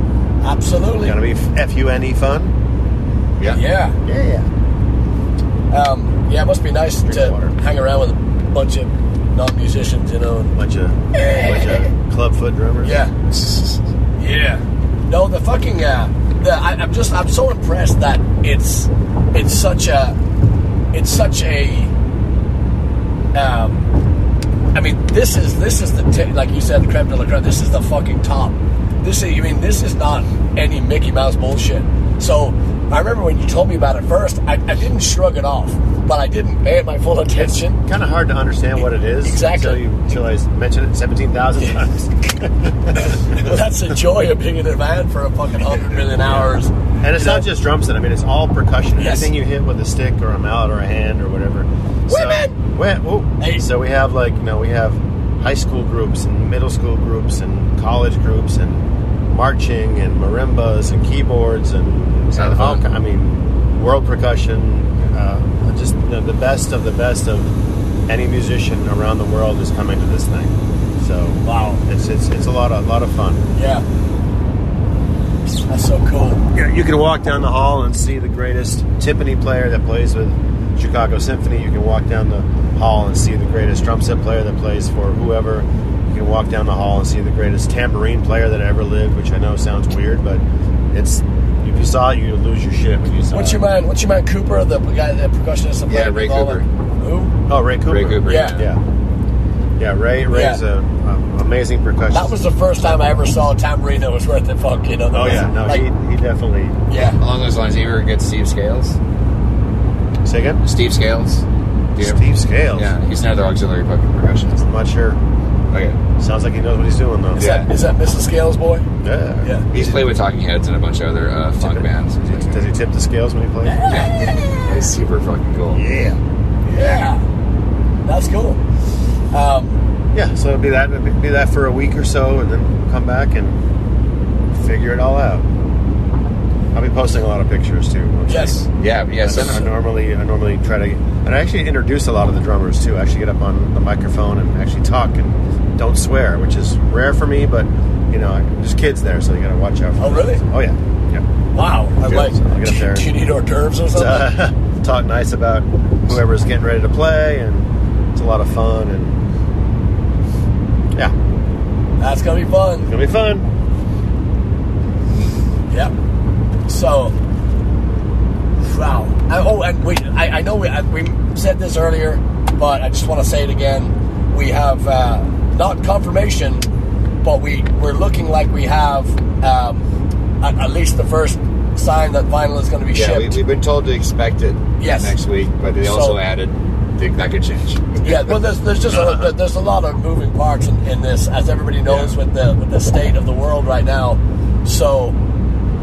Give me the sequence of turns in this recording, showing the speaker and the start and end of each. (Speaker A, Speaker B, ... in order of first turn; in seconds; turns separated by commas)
Speaker A: 0.4-1.1, Speaker B: 1.0-2.5, Speaker A: 3.4-4.0, Speaker B: 4.0-4.5, Speaker A: 5.7-10.6, Speaker B: 7.0-7.5, Speaker B: 10.6-13.0, Speaker A: 11.1-11.9, Speaker A: 12.8-13.1, Speaker C: 13.3-13.8, Speaker A: 14.2-20.2, Speaker A: 20.9-21.9, Speaker A: 23.3-23.8, Speaker A: 24.7-37.8, Speaker B: 37.4-43.6, Speaker A: 39.2-39.8, Speaker A: 42.9-47.4, Speaker B: 45.7-67.5, Speaker A: 49.0-49.3, Speaker A: 52.1-52.5, Speaker C: 62.3-62.8, Speaker B: 68.1-73.5, Speaker A: 71.4-71.8, Speaker A: 73.5-73.8, Speaker A: 75.7-76.4, Speaker B: 76.5-93.6, Speaker A: 93.3-97.3, Speaker C: 95.9-96.6, Speaker B: 97.5-98.8, Speaker C: 97.9-98.7, Speaker A: 98.2-98.6, Speaker B: 99.8-102.3, Speaker A: 100.3-100.6, Speaker A: 102.1-105.9, Speaker B: 105.1-106.8, Speaker C: 105.2-105.5, Speaker A: 106.9-107.2, Speaker C: 107.0-109.0, Speaker B: 110.2-110.6, Speaker C: 110.6-111.4, Speaker C: 111.9-112.2, Speaker B: 112.0-112.9, Speaker C: 112.7-114.7, Speaker B: 114.6-115.2, Speaker C: 115.7-116.0, Speaker B: 116.2-117.5, Speaker A: 117.3-118.9, Speaker C: 117.4-117.7, Speaker B: 119.0-120.0, Speaker C: 119.7-122.7, Speaker B: 121.6-123.9, Speaker A: 123.7-124.6, Speaker C: 123.9-125.8, Speaker B: 125.7-126.2, Speaker A: 126.6-127.2, Speaker A: 128.1-128.6, Speaker A: 129.3-129.8, Speaker B: 130.1-133.6, Speaker B: 134.5-135.5, Speaker B: 136.7-138.7, Speaker A: 138.3-138.6, Speaker C: 138.8-139.7, Speaker B: 139.2-150.8, Speaker A: 150.0-150.4, Speaker A: 151.5-154.3, Speaker B: 152.0-153.1, Speaker B: 153.9-159.2, Speaker A: 162.0-162.9, Speaker B: 162.8-163.5, Speaker A: 166.7-167.1, Speaker A: 168.6-176.7, Speaker A: 177.2-179.8, Speaker A: 180.4-183.4, Speaker C: 182.9-188.3, Speaker A: 184.8-185.1, Speaker A: 185.8-186.2, Speaker A: 188.0-195.2, Speaker B: 188.9-189.3